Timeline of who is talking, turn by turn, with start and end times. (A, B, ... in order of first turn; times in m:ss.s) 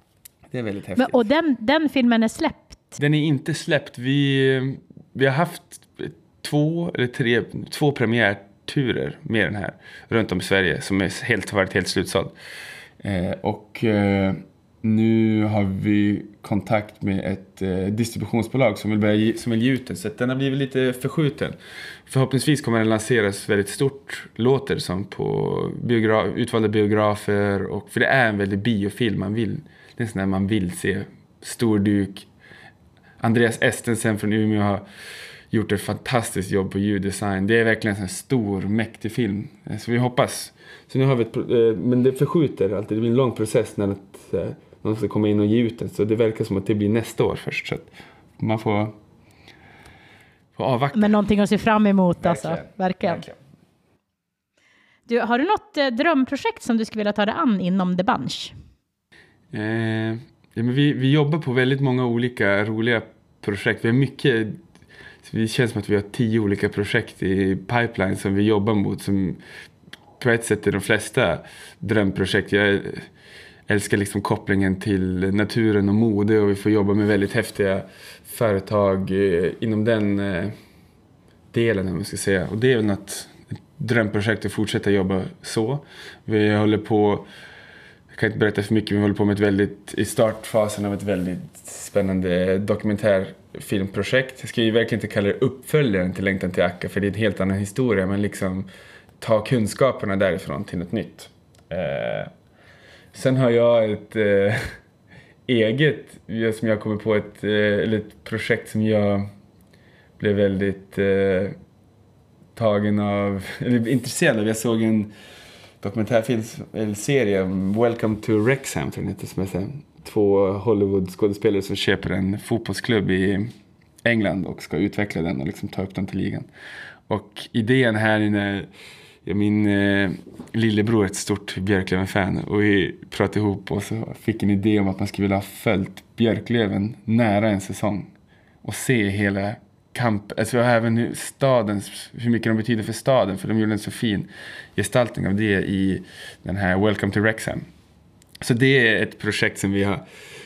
0:00.5-0:01.3 A
0:01.0-0:02.9 B
0:03.0-0:12.3 A
0:13.0-0:21.6 A
0:22.1-0:32.3 A
0:33.2-0:34.8 A
0:35.5-0:49.0 A
0:50.6-0:51.2 A
0:50.9-0:53.2 B
0:52.2-0:53.4 A
0:55.1-0:58.5 B
0:59.5-1:04.6 A
1:05.2-1:09.4 A
1:10.2-1:13.1 A
1:13.7-1:20.5 A
1:21.5-1:27.3 A
1:28.1-1:38.7 A
1:39.2-1:42.3 A
1:43.1-1:44.7 A
1:45.5-1:49.3 A
1:50.2-1:51.6 A
1:52.5-1:55.1 A
1:55.8-2:03.5 A
2:04.0-2:06.5 A
2:07.1-2:08.7 A
2:09.2-2:18.1 A
2:18.6-2:27.6 A
2:28.4-2:30.0 A